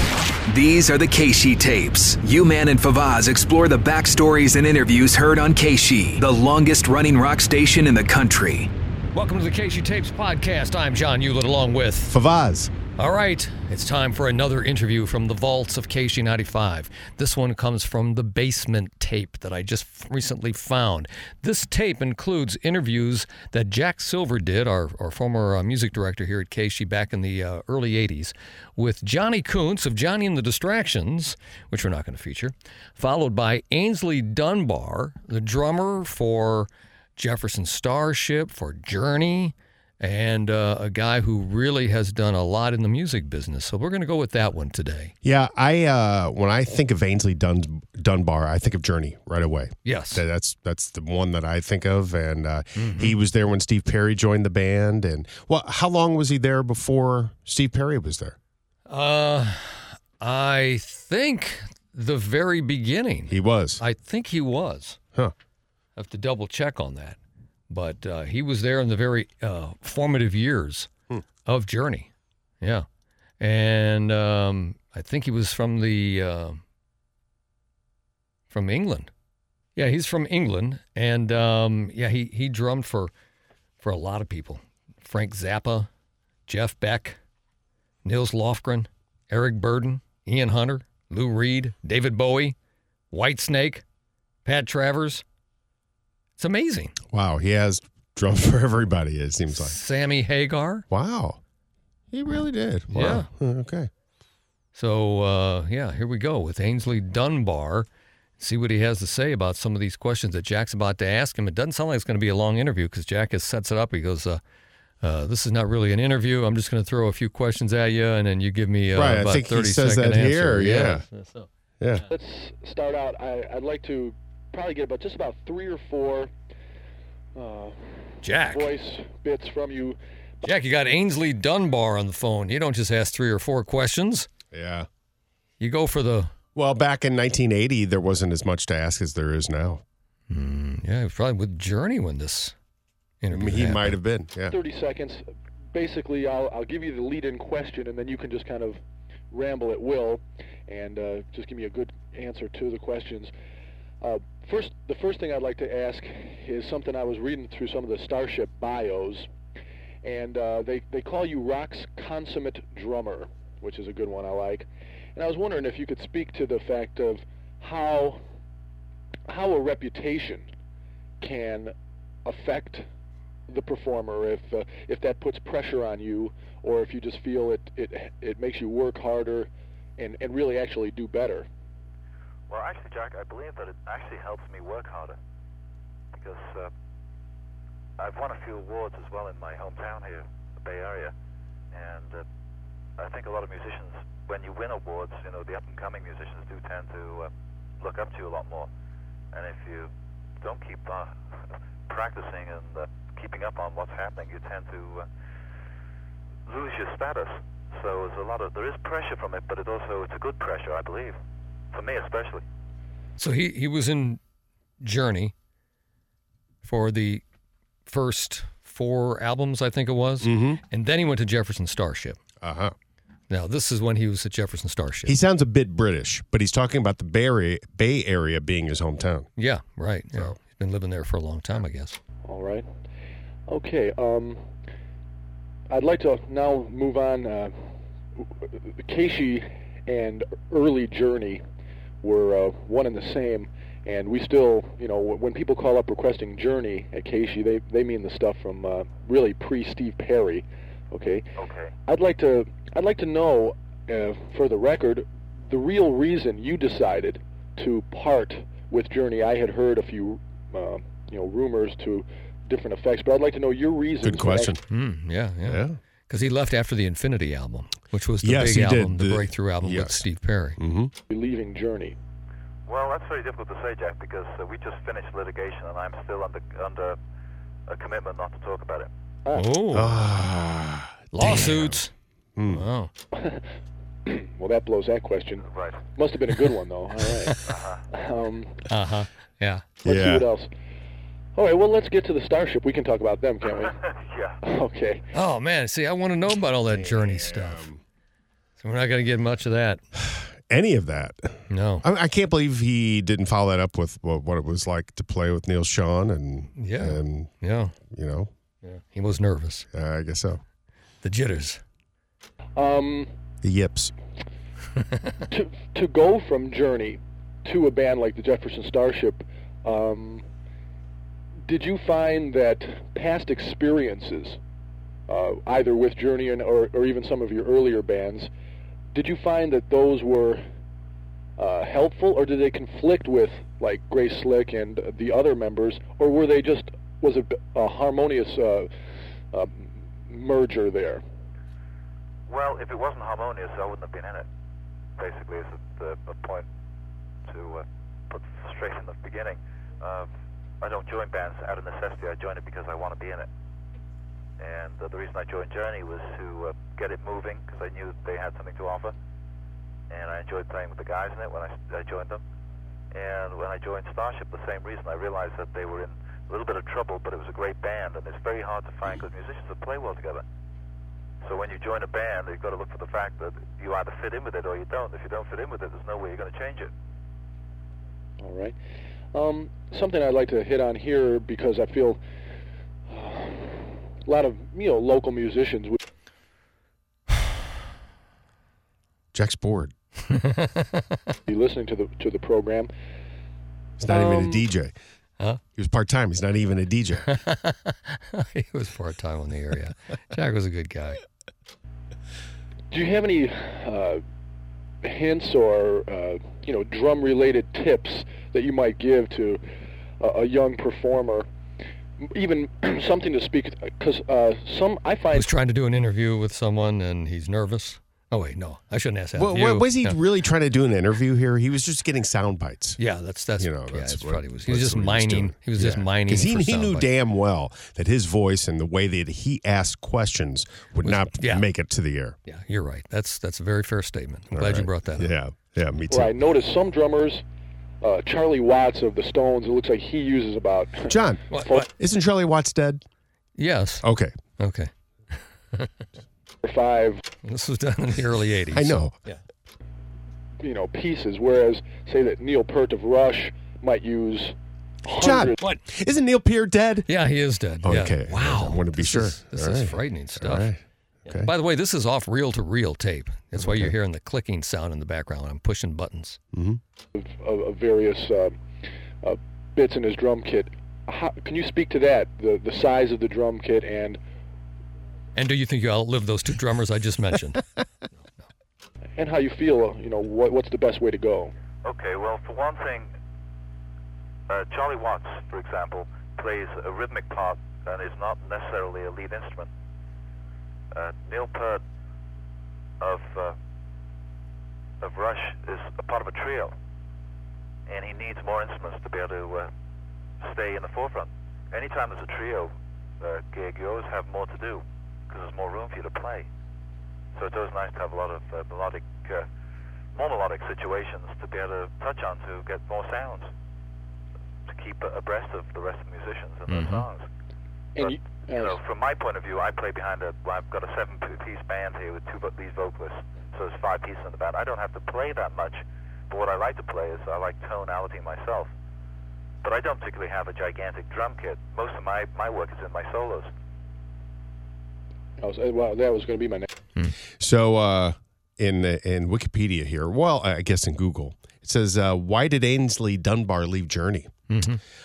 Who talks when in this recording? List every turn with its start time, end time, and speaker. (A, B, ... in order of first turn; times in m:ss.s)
0:00.4-0:08.7 A
0:09.1-0:12.2 B
0:12.1-0:12.7 C
0:13.0-0:45.1 B
0:45.2-0:58.4 C
0:49.8-0:50.2 B
0:52.8-0:53.2 B
0:58.9-1:05.0 B
1:03.3-1:03.8 C
1:06.0-1:07.2 B
1:07.7-1:10.9 B
1:11.4-1:12.1 B
1:12.6-1:12.8 B
1:13.4-1:16.6 B
1:18.5-1:19.1 B
1:19.8-1:23.1 B
1:23.8-1:25.9 B
1:26.5-1:27.2 B
1:28.0-1:32.5 B
1:33.1-1:33.8 B
1:34.4-1:35.2 B
1:36.4-1:37.0 B
1:37.1-1:39.8 C
1:39.5-1:40.8 B
1:40.9-1:41.4 C
1:42.1-1:43.9 C
1:42.9-1:43.3 B
1:44.7-1:47.9 B
1:48.4-1:54.4 B
1:55.0-2:01.5 B
1:58.9-2:01.0 C
2:02.1-2:06.3 D
2:07.3-2:10.5 D
2:08.2-2:08.7 B
2:10.4-2:14.3 B
2:14.5-2:14.9 C
2:15.6-2:16.3 B
2:16.5-2:19.8 C
2:20.3-2:22.5 B
2:23.2-2:24.0 B
2:23.3-2:24.6 C
2:24.5-2:28.8 D
2:29.3-2:33.3 D
2:34.0-2:39.3 D
2:40.0-2:48.2 D
2:49.3-2:50.5 D
2:51.2-2:51.7 D
2:52.2-2:52.8 D
2:53.5-3:01.5 D
3:02.5-3:05.2 E
3:06.1-3:06.7 E
3:08.0-3:11.1 E
3:11.7-3:12.2 E
3:13.0-3:18.7 E
3:19.3-3:19.9 E
3:20.4-3:21.2 E
3:21.9-3:25.1 E
3:26.5-3:31.2 E
3:31.7-3:32.4 E
3:33.2-3:34.2 B
3:34.8-3:35.3 B
3:36.6-3:37.2 B
3:37.9-3:42.2 B
3:40.2-3:40.6 C
3:42.4-3:42.7 C
3:43.3-3:45.2 B
3:45.0-3:49.3 C
3:49.4-3:52.0 B
3:52.2-3:52.7 D
3:53.5-3:54.5 D
3:55.7-4:01.4 D
4:02.0-4:11.2 D
4:11.4-4:11.7 E
4:11.8-4:24.6 D
4:24.0-4:24.6 C
4:24.7-4:30.6 B
4:25.4-4:25.8 C
4:28.2-4:30.0 C
4:30.6-4:30.9 C
4:31.1-4:32.0 D
4:32.7-4:37.0 E
4:37.7-4:38.9 E
4:39.2-4:39.5 D
4:39.3-4:40.0 B
4:39.7-4:41.8 C
4:41.1-4:41.9 B
4:42.4-4:42.6 C
4:42.5-4:42.9 B
4:43.1-4:43.4 D
4:44.0-4:47.4 D
4:45.5-4:45.8 E
4:47.4-4:47.8 E
4:47.9-4:48.6 D
4:48.7-4:49.7 B
4:49.8-4:50.5 D
4:49.8-4:50.3 C
4:51.3-4:53.8 D
4:53.6-4:54.4 E
4:54.4-4:55.1 D
4:55.1-4:57.7 B
4:56.7-4:57.8 C
4:58.6-4:59.8 B
5:00.0-5:07.3 C
5:01.5-5:01.8 B
5:06.6-5:07.7 B
5:07.9-5:08.3 C
5:08.6-5:09.6 B
5:09.7-5:10.4 C
5:11.0-5:11.6 B
5:12.6-5:13.1 D
5:13.4-5:13.9 C
5:15.3-5:20.3 D
5:21.4-5:24.4 D
5:25.1-5:28.3 D
5:28.9-5:30.4 D
5:31.4-5:38.7 D
5:39.3-5:41.0 D
5:42.3-5:44.3 E
5:45.0-5:46.4 E
5:47.3-5:50.1 E
5:50.6-5:53.3 E
5:54.4-5:58.9 E
5:59.9-6:02.2 E
6:02.9-6:10.2 E
6:11.2-6:16.7 E
6:18.2-6:18.6 D
6:19.1-6:22.0 D
6:22.9-6:25.8 D
6:29.1-6:29.7 C
6:30.1-6:30.8 B
6:31.3-6:32.7 D
6:33.8-6:34.7 C
6:33.9-6:34.4 D
6:35.6-6:37.1 C
6:37.0-6:41.0 B
6:42.7-6:44.0 D
6:44.8-6:49.4 D
6:50.0-6:51.2 D
6:52.0-6:55.3 D
6:55.1-7:00.0 B
6:59.2-7:02.8 C
7:02.8-7:06.9 B
7:03.4-7:12.2 C
7:10.8-7:11.4 B
7:12.2-7:15.1 B
7:14.3-7:16.1 C
7:15.9-7:17.2 D
7:17.8-7:21.7 D
7:20.9-7:22.8 C
7:21.3-7:21.7 B
7:23.4-7:23.8 B
7:23.8-7:24.2 C
7:24.4-7:25.7 B
7:26.4-7:27.0 D
7:27.2-7:29.2 B
7:28.5-7:28.9 C
7:30.4-7:35.4 D
7:35.0-7:36.9 C
7:36.9-7:40.5 B
7:37.6-7:41.3 C
7:41.0-7:46.2 B
7:43.4-7:43.7 C
7:46.3-7:46.6 C
7:46.9-7:48.4 D
7:49.0-7:54.0 D
7:55.1-7:57.4 B
7:59.0-8:01.3 D
8:01.6-8:02.9 E
8:04.3-8:09.5 E
8:10.7-8:11.6 E
8:12.8-8:13.3 E
8:14.8-8:16.5 E
8:17.7-8:19.5 E
8:20.2-8:26.3 E
8:27.1-8:29.2 E
8:29.9-8:33.3 E
8:34.5-8:37.1 E
8:36.5-8:36.8 B
8:37.7-8:38.6 D
8:37.8-8:48.5 E
8:49.4-8:53.3 E
8:55.2-8:56.5 D
8:57.2-9:04.1 C
9:04.3-9:04.6 B